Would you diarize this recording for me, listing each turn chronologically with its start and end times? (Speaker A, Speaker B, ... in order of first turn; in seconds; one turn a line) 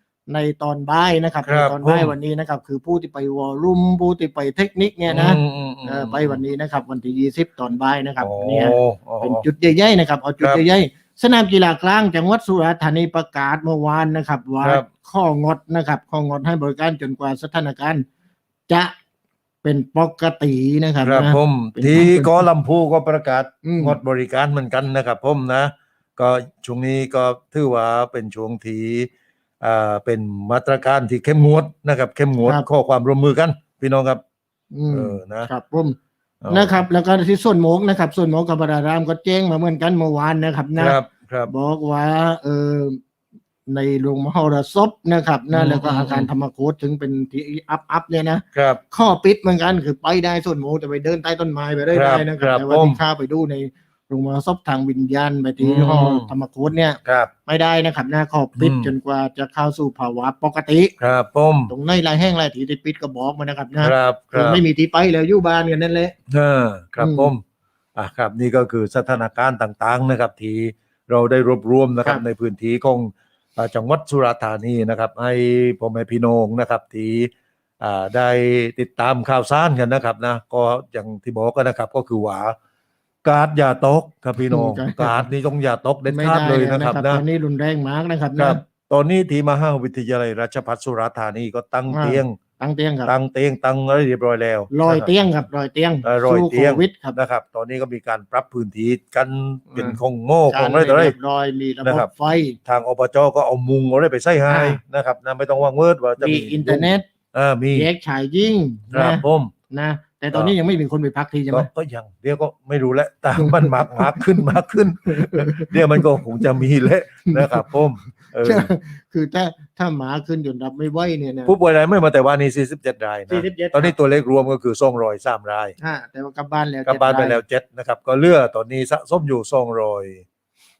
Speaker A: 0.3-18.1
Speaker B: 1.4-2.1
Speaker B: 5.1-6.4
Speaker B: 8.2-9.4
Speaker B: 10.4-10.6
Speaker B: 14.6-14.9
Speaker A: 18.7-18.9
Speaker A: 19.6-22.4
Speaker B: 21.0-29.1
Speaker A: 23.6-24.0
Speaker B: 29.6-34.2
Speaker A: 34.7-36.0
Speaker B: 34.9-35.5
Speaker B: 36.4-36.8
Speaker A: 36.5-41.0
Speaker B: 40.8-41.5
Speaker A: 41.5-43.0
Speaker A: 43.7-60.9
Speaker B: 45.5-46.3
Speaker B: 48.5-48.8
Speaker B: 51.9-53.0
Speaker B: 55.6-56.3
Speaker B: 57.0-57.3
Speaker B: 58.6-58.9
Speaker B: 61.0-61.7
Speaker A: 61.7-66.1
Speaker B: 63.8-64.6
Speaker B: 66.3-67.4
Speaker A: 67.0-67.3
Speaker B: 68.0-82.5
Speaker B: 83.2-87.2
Speaker A: 84.5-85.2
Speaker A: 86.1-88.6
Speaker B: 88.4-92.4
Speaker A: 91.9-93.1
Speaker B: 93.0-95.1
Speaker A: 94.7-97.2
Speaker B: 96.0-101.1
Speaker A: 99.7-100.0
Speaker A: 100.5-102.6
Speaker B: 101.8-102.1
Speaker B: 102.7-107.9
Speaker A: 104.5-104.8
Speaker A: 106.2-107.0
Speaker A: 107.7-111.7
Speaker B: 108.9-109.5
Speaker B: 111.5-118.7
Speaker A: 113.4-114.5
Speaker A: 115.1-116.0
Speaker A: 117.3-117.7
Speaker A: 118.4-121.5
Speaker B: 121.5-125.7
Speaker A: 123.3-123.9
Speaker A: 125.8-127.4
Speaker B: 126.8-130.2